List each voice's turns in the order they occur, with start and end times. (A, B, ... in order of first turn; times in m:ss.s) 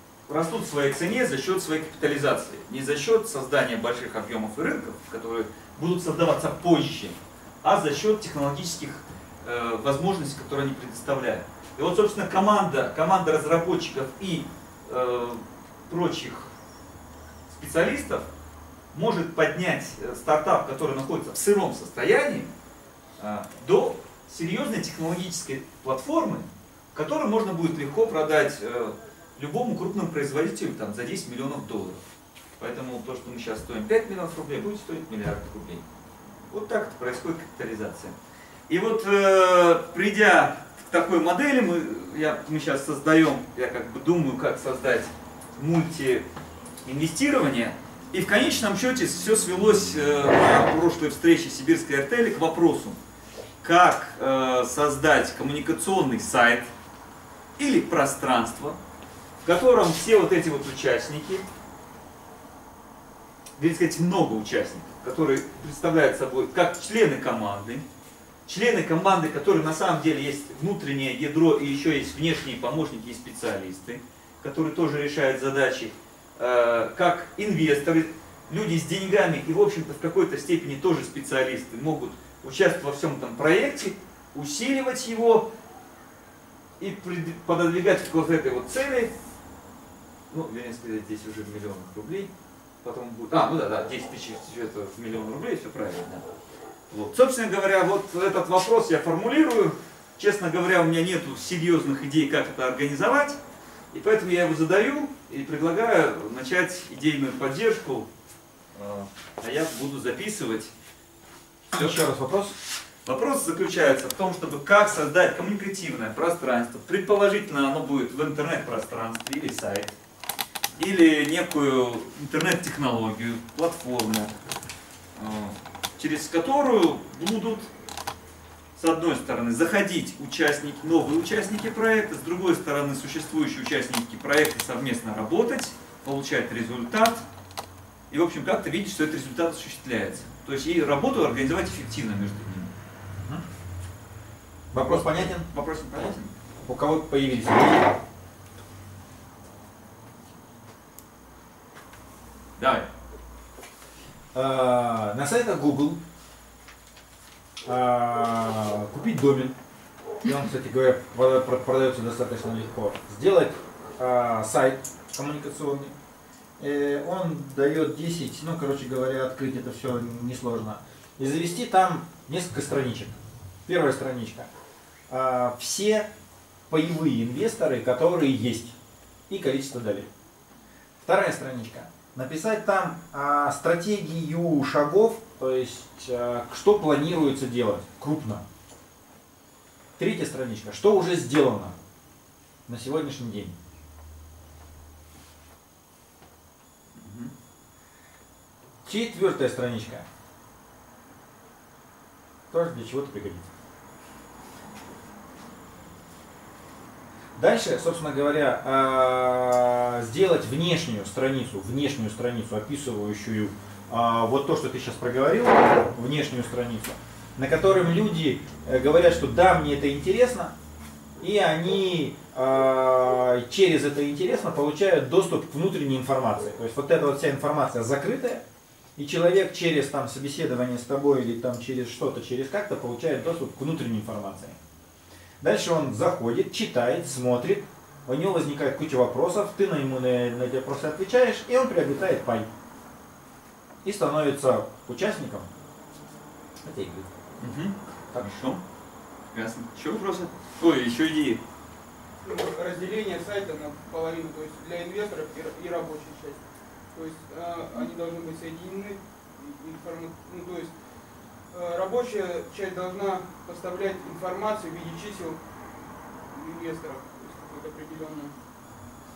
0:00.3-0:16.5 A
0:17.5-0:18.3 A
0:18.9-0:22.5 A
0:23.2-0:32.0 A
0:32.6-0:35.8 A
0:36.5-0:38.2 A
0:38.7-0:46.3 A
0:46.8-0:53.0 A
0:53.6-0:56.7 A
0:57.6-0:58.8 A
0:59.4-1:01.4 A
1:03.6-1:07.8 A
1:08.4-1:25.5 A
1:26.8-1:29.1 A
1:30.3-1:32.3 A
1:32.8-1:36.2 A
1:36.9-1:43.4 A
1:43.9-1:48.1 A
1:48.7-1:50.7 A
1:51.7-1:52.5 B
1:51.7-1:52.0 A
1:53.0-1:59.9 A
2:00.8-2:04.3 A
2:05.2-2:07.7 A
2:08.8-2:17.2 A
2:18.1-2:22.7 A
2:24.7-2:25.5 B
2:24.7-2:26.3 A
2:26.6-2:27.9 B
2:32.6-2:32.9 A
2:34.3-2:36.0 B
2:37.6-2:39.5 B
2:40.2-2:45.9 B
2:46.6-2:54.5 B
2:55.1-2:56.1 B
2:56.7-2:58.8 B
2:59.3-3:00.1 B
3:01.0-3:08.4 B
3:10.0-3:11.8 B
3:12.7-3:13.6 B
3:17.0-3:17.3 A
3:18.8-3:20.0 B
3:22.5-3:23.5 B
3:27.4-3:40.5 B
3:41.2-3:48.4 B
3:49.0-3:54.6 B
3:55.4-4:02.5 B
4:03.8-4:05.5 B
4:06.6-4:07.1 B
4:07.4-4:08.6 A
4:08.1-4:08.4 B
4:09.3-4:11.4 A
4:12.2-4:28.4 C